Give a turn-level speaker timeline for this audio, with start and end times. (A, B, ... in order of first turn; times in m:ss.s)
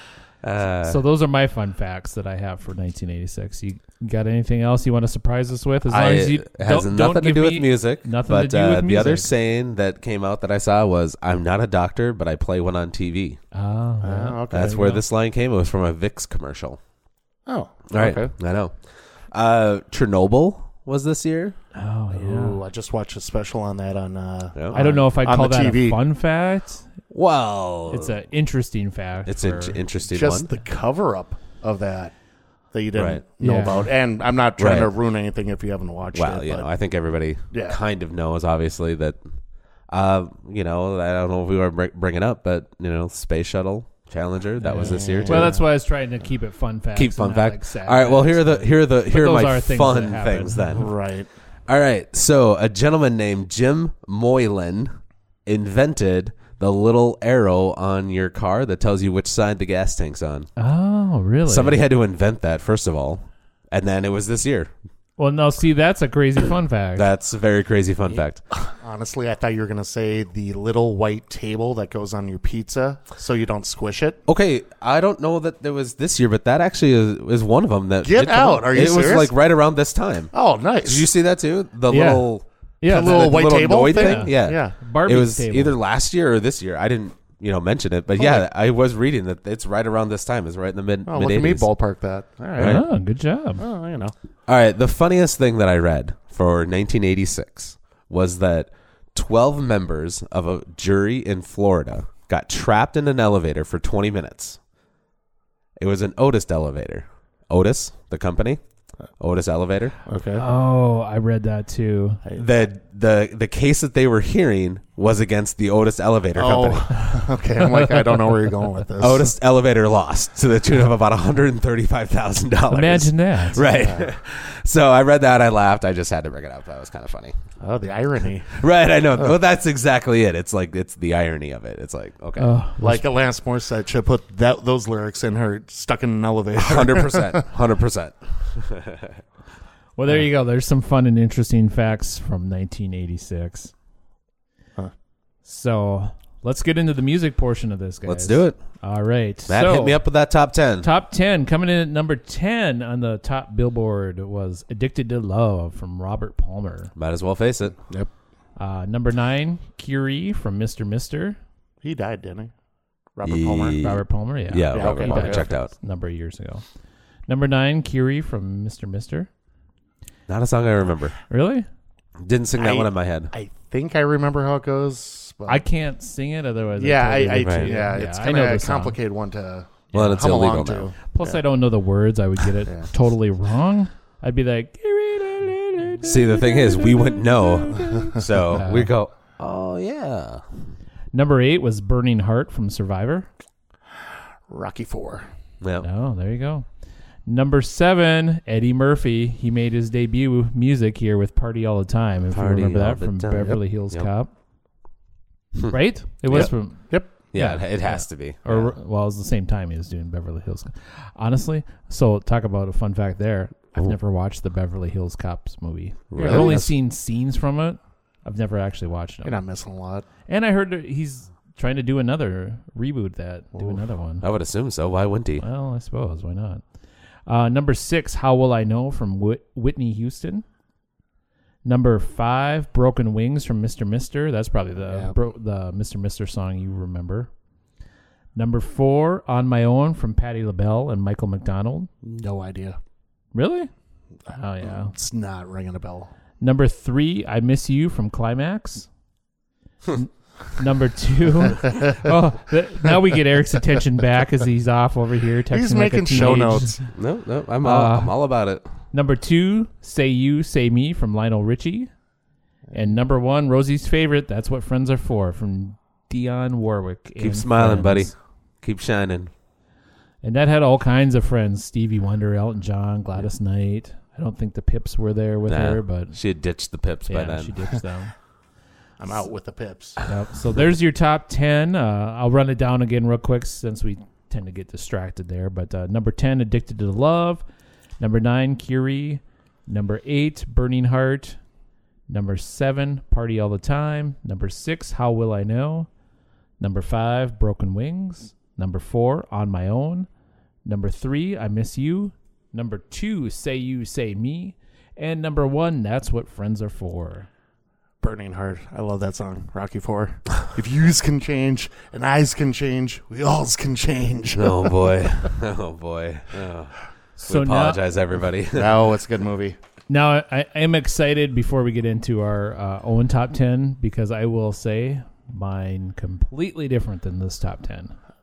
0:00.4-0:01.0 A
0:00.8-0:09.3 B
0:05.9-0:13.4 A
0:13.5-0:15.0 B
0:14.0-0:15.0 C
0:14.5-0:16.8 A
0:17.5-0:18.3 C
0:17.9-0:18.8 A
0:19.3-0:21.6 A
0:21.7-0:22.6 B
0:22.1-0:26.0 C
0:24.7-0:26.9 B
0:27.1-0:28.1 A
0:27.9-0:29.8 B
0:29.2-0:30.5 A
0:30.1-0:32.1 C
0:32.7-0:36.7 C
0:32.9-0:33.2 A
0:33.4-0:33.8 B
0:34.6-0:34.9 A
0:36.1-0:39.2 A
0:37.5-0:37.8 C
0:39.9-0:45.5 A
0:44.6-0:50.9 B
0:44.7-0:45.6 C
0:46.9-0:50.9 A
0:50.8-0:51.3 C
0:51.7-0:54.9 A
0:55.4-1:00.5 A
1:00.6-1:01.8 B
1:01.4-1:04.7 A
1:05.2-1:07.1 B
1:07.0-1:08.4 A
1:08.5-1:14.2 C
1:14.3-1:20.3 A
1:18.0-1:19.3 C
1:20.3-1:21.1 C
1:20.8-1:31.7 A
1:21.9-1:22.3 B
1:22.8-1:25.8 B
1:22.9-1:24.8 C
1:28.2-1:28.4 C
1:31.0-1:32.8 C
1:32.6-1:32.8 A
1:32.6-1:33.6 B
1:33.6-1:34.1 C
1:34.5-1:44.6 A
1:45.8-1:48.6 A
1:49.2-1:50.0 A
1:50.0-1:50.4 C
1:50.4-1:52.2 B
1:52.3-1:57.0 A
1:56.4-1:59.3 C
1:57.6-1:58.6 B
1:59.0-2:07.3 A
2:02.7-2:03.7 B
2:03.7-2:04.1 C
2:07.6-2:08.6 C
2:08.5-2:12.5 A
2:12.4-2:13.0 B
2:12.8-2:17.5 C
2:16.6-2:19.2 A
2:20.0-2:23.7 B
2:25.4-2:30.0 B
2:28.0-2:28.6 A
2:29.5-2:30.9 A
2:30.8-2:36.9 B
2:37.0-2:37.8 A
2:38.6-2:41.4 B
2:41.8-2:42.5 C
2:43.2-2:43.9 C
2:43.2-2:45.7 A
2:43.8-2:46.6 B
2:44.7-2:45.5 C
2:47.3-2:49.3 B
2:50.3-2:51.2 A
2:51.3-2:51.7 B
2:52.2-2:53.3 A
2:52.6-2:55.6 C
2:55.5-2:59.0 B
2:56.8-3:01.4 C
2:57.4-2:57.7 A
2:59.9-3:00.9 A
3:01.1-3:08.9 B
3:06.0-3:10.4 A
3:11.1-3:13.3 B
3:14.5-3:15.3 C
3:15.8-3:16.6 B
3:17.2-3:24.3 B
3:22.3-3:24.1 A
3:25.7-3:39.4 B
3:26.3-3:26.5 A
3:26.3-3:27.1 C
3:27.3-3:28.7 A
3:36.1-3:36.7 A
3:36.2-3:36.7 C
3:39.2-3:40.0 C
3:40.3-3:44.2 B
3:44.2-3:45.4 A
3:45.4-3:46.6 B
3:47.3-3:50.4 B
3:51.6-3:57.3 B
3:54.8-3:55.2 C
3:58.4-4:01.9 B
4:02.0-4:02.8 C
4:03.3-4:03.7 B
4:04.3-4:04.9 B
4:04.6-4:06.1 C
4:06.4-4:08.9 B
4:09.9-4:16.9 B
4:15.5-4:16.8 C
4:16.9-4:18.6 A
4:17.6-4:18.1 B
4:18.9-4:21.9 B
4:22.7-4:28.1 B
4:27.2-4:29.3 A
4:30.2-4:36.2 B
4:35.5-4:37.5 A
4:37.1-4:38.1 B
4:39.0-4:40.0 C
4:40.0-4:47.4 B
4:48.0-4:51.4 B
4:52.1-4:55.9 B
4:56.6-5:00.1 B
5:00.6-5:07.3 B
5:08.0-5:14.8 C
5:14.3-5:18.8 A
5:17.2-5:17.8 B
5:18.5-5:19.6 C
5:19.9-5:27.9 B